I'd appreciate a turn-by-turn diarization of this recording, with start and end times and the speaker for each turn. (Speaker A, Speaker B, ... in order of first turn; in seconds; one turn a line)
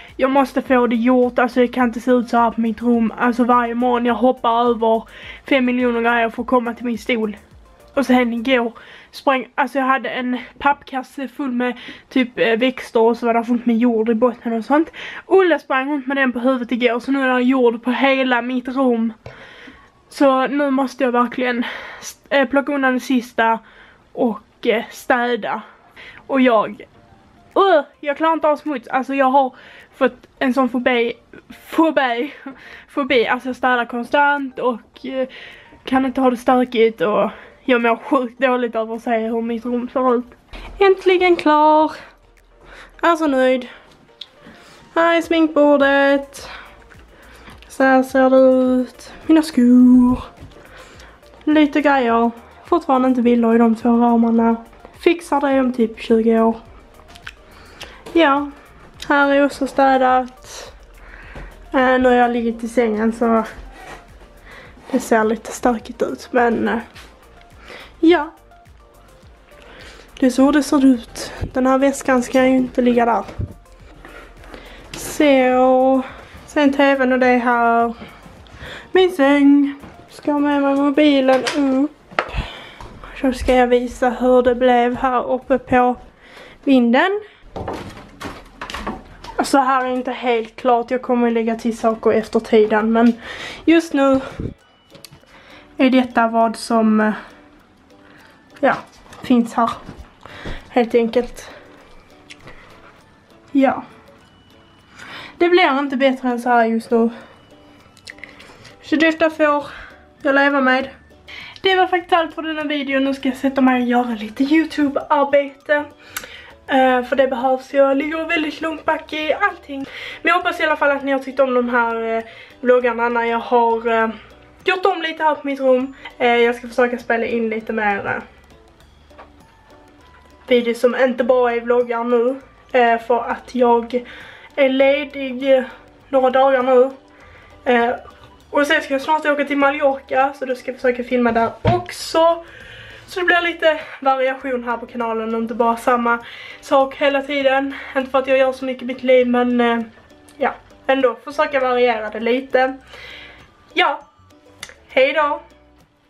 Speaker A: 0.2-7.4
Speaker A: 8.0-19.2
Speaker A: 20.1-23.6
Speaker A: 24.1-25.6
Speaker A: 26.3-26.9
Speaker A: 27.5-35.3
Speaker A: 35.8-42.0
Speaker A: 43.0-43.7
Speaker A: 44.9-46.5
Speaker A: 47.7-50.2
Speaker A: 51.5-56.6
Speaker A: 58.1-58.5
Speaker A: 59.0-60.8
Speaker A: 61.7-63.5
Speaker A: 64.9-66.8
Speaker A: 68.0-68.3
Speaker A: 70.2-73.3
Speaker A: 74.9-78.0
Speaker A: 78.9-82.4
Speaker A: 83.1-86.0
Speaker A: 86.6-87.2
Speaker A: 89.4-94.3
Speaker A: 95.8-97.2
Speaker A: 98.6-99.8
Speaker A: 100.7-101.5
Speaker A: 103.5-103.8
Speaker A: 105.4-107.1
Speaker A: 108.8-109.7
Speaker A: 110.2-110.9
Speaker A: 111.6-115.9
Speaker A: 116.7-128.2
Speaker A: 130.5-134.0
Speaker A: 134.6-136.9
Speaker A: 137.7-142.4
Speaker A: 143.1-152.8
Speaker A: 153.7-154.1
Speaker A: 154.9-155.4